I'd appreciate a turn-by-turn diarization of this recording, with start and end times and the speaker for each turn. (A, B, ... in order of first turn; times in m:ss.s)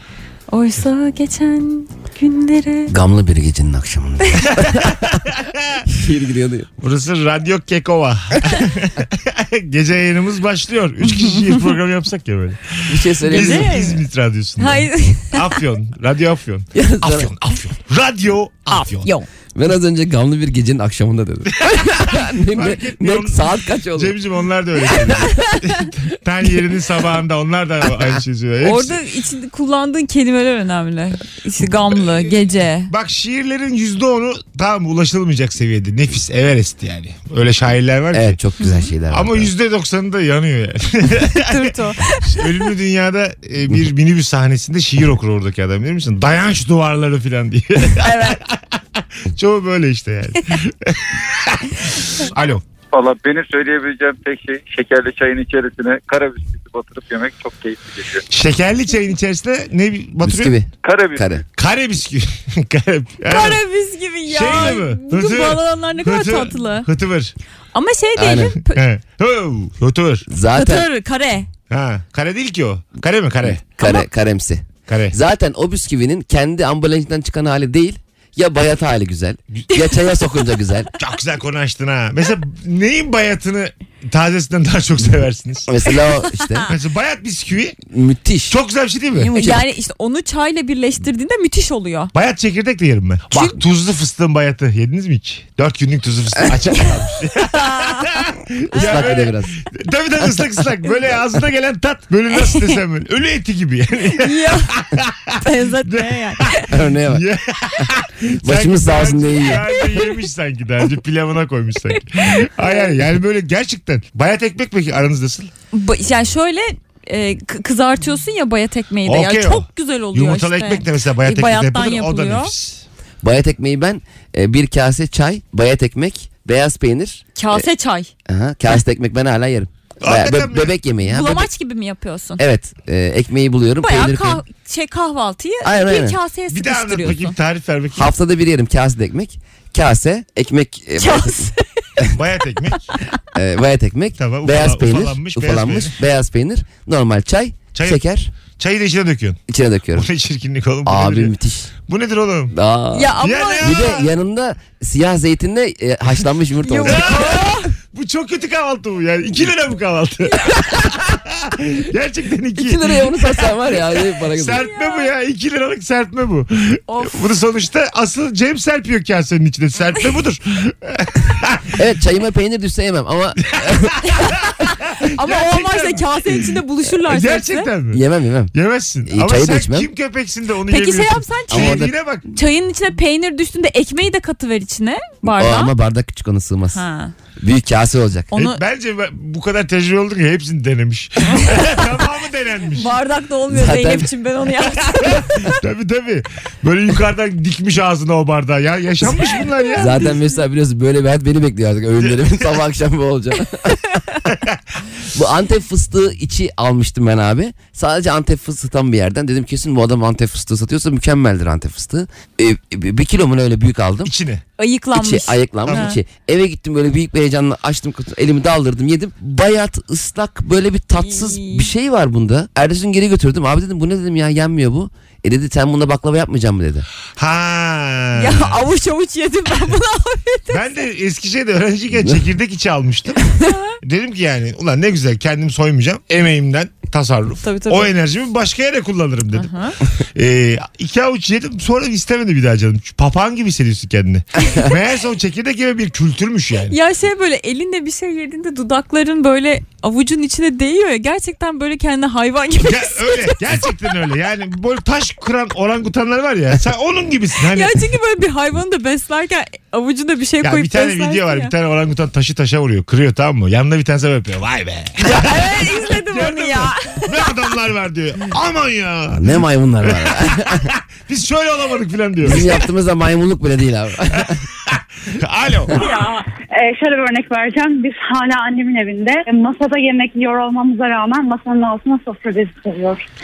0:00.5-0:02.9 A
0:02.9-0:05.2 B
0:04.6-0:05.8 C
0:05.9-0:06.7 B
0:06.8-0:19.1 C
0:12.9-0:13.8 B
0:13.3-0:14.0 A
0:14.6-0:15.5 A
0:16.7-0:17.3 B
0:18.7-0:19.3 A
0:19.5-0:24.2 B
0:21.6-0:29.0 C
0:24.9-0:25.2 B
0:25.5-0:25.9 A
0:28.6-0:32.9 A
0:32.0-0:32.3 C
0:32.9-0:38.4 C
0:38.1-0:39.5 B
0:38.6-0:38.9 A
0:39.1-0:52.6 C
0:41.3-0:42.7 A
0:48.0-0:48.4 A
0:52.9-0:58.2 D
0:58.3-1:00.5 C
1:00.2-1:01.4 B
1:00.8-1:01.2 D
1:01.6-1:03.6 C
1:03.2-1:06.9 A
1:04.3-1:07.3 C
1:07.7-1:08.8 A
1:08.2-1:08.6 B
1:08.7-1:10.3 C
1:10.3-1:10.9 B
1:10.5-1:11.5 A
1:11.7-1:13.6 C
1:13.5-1:20.9 B
1:13.8-1:14.0 A
1:14.9-1:15.2 C
1:21.0-1:25.7 C
1:25.7-1:26.7 B
1:25.9-1:26.7 A
1:26.7-1:27.8 C
1:27.9-1:28.6 B
1:28.5-1:29.3 C
1:29.2-1:32.1 A
1:29.2-1:29.6 B
1:32.1-1:55.5 C
1:33.3-1:33.6 A
1:37.4-1:39.0 A
1:38.7-1:39.5 B
1:42.4-1:42.7 A
1:44.1-1:44.7 A
1:45.4-1:46.7 A
1:46.7-1:47.2 B
1:48.4-1:49.6 B
1:49.7-1:50.1 A
1:51.9-1:52.9 A
1:55.7-2:02.5 A
1:59.0-2:02.8 C
2:03.2-2:07.6 B
2:07.4-2:08.1 A
2:08.3-2:11.5 B
2:10.0-2:10.7 C
2:11.0-2:12.4 A
2:12.4-2:14.4 B
2:13.8-2:17.3 A
2:15.6-2:16.2 B
2:16.5-2:18.1 C
2:18.0-2:22.1 B
2:21.0-2:21.6 A
2:22.1-2:22.9 C
2:23.3-2:28.3 B
2:24.2-2:26.0 C
2:27.7-2:28.0 C
2:28.6-2:29.4 C
2:29.5-2:30.1 B
2:29.9-2:31.3 C
2:30.8-2:31.7 B
2:31.9-2:32.5 C
2:32.5-2:37.2 B
2:32.9-2:34.0 A
2:33.2-2:34.0 C
2:36.6-2:37.7 A
2:36.8-2:43.5 C
2:42.5-2:44.6 B
2:44.3-2:51.8 C
2:44.5-2:45.1 A
2:46.9-2:47.2 A
2:51.8-2:54.0 B
2:53.5-2:56.4 C
2:54.0-2:54.5 A
2:55.1-2:57.7 A
2:57.0-3:02.3 C
2:57.9-2:58.5 B
2:59.0-2:59.9 B
3:00.7-3:05.7 A
3:01.5-3:01.9 B
3:05.4-3:06.8 B
3:06.7-3:07.1 A
3:07.4-3:08.3 B
3:08.3-3:08.6 A
3:08.3-3:12.9 C
3:11.3-3:11.9 A
3:12.8-3:15.6 A
3:13.5-3:14.1 B
3:14.9-3:20.1 C
3:19.0-3:20.2 A
3:19.8-3:23.8 B
3:22.0-3:22.4 C
3:23.9-3:24.2 A
3:25.1-3:34.1 B
3:34.0-3:34.4 C
3:34.6-3:36.0 A
3:34.9-3:46.8 B
3:35.7-3:35.9 C
3:41.0-3:41.7 A
3:47.2-3:48.6 C
3:48.1-3:50.7 A
3:50.5-4:06.8 C
3:53.2-3:53.7 A
3:57.4-3:57.9 A
3:59.3-3:59.8 A
4:06.7-4:13.7 A
4:12.6-4:17.8 C
4:17.5-4:21.5 A
4:20.4-4:32.5 C
4:25.0-4:27.3 A
4:29.1-4:30.7 B
4:32.2-4:34.4 B
4:34.3-4:35.7 C
4:35.7-4:43.0 E